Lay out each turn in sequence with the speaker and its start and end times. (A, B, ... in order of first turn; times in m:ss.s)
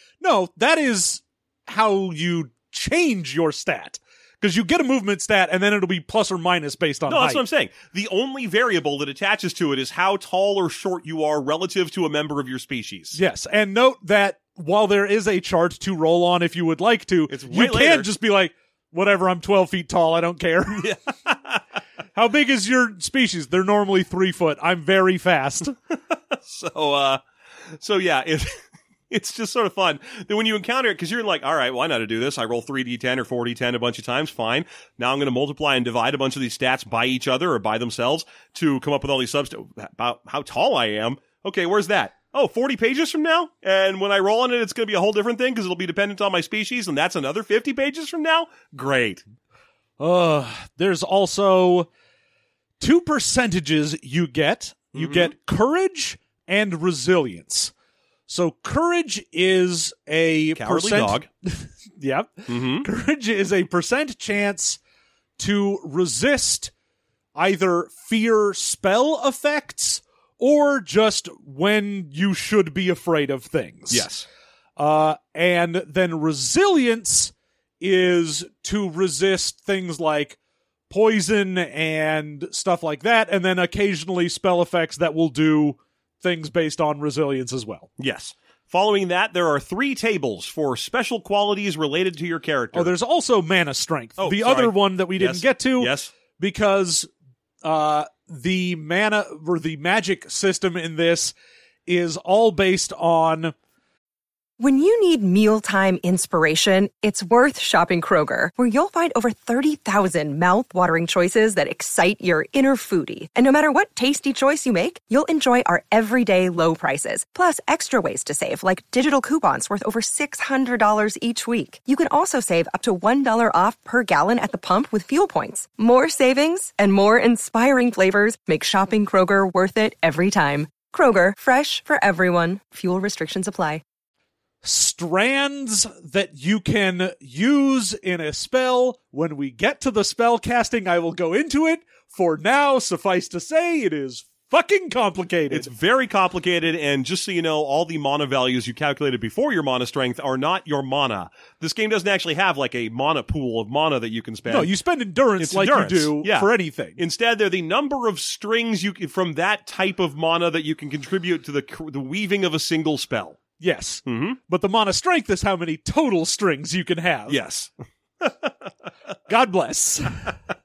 0:00.2-0:07.4 A
0:07.1-0:13.2 B
0:13.1-0:20.9 A
0:17.3-0:18.1 B
0:20.8-0:21.6 B
0:22.1-0:25.8 A
0:26.3-0:49.2 B
0:50.0-0:51.9 A
0:52.8-0:57.7 A
0:55.0-0:55.3 B
0:58.3-1:04.8 A
1:00.5-1:01.2 B
1:02.5-1:02.9 B
1:05.4-1:06.7 A
1:07.3-1:14.1 A
1:13.9-1:14.3 B
1:14.8-1:20.4 A
1:20.9-1:27.9 A
1:28.0-1:32.9 B
1:32.7-1:37.1 A
1:34.2-1:36.1 B
1:37.6-1:41.3 A
1:41.8-1:43.5 A
1:44.6-2:13.8 C
2:14.6-2:25.7 A
2:25.5-2:34.7 B
2:34.5-2:37.0 A
2:35.4-2:43.4 B
2:43.6-2:47.4 A
2:44.0-2:44.4 B
2:47.3-2:48.7 B
2:49.3-2:50.2 A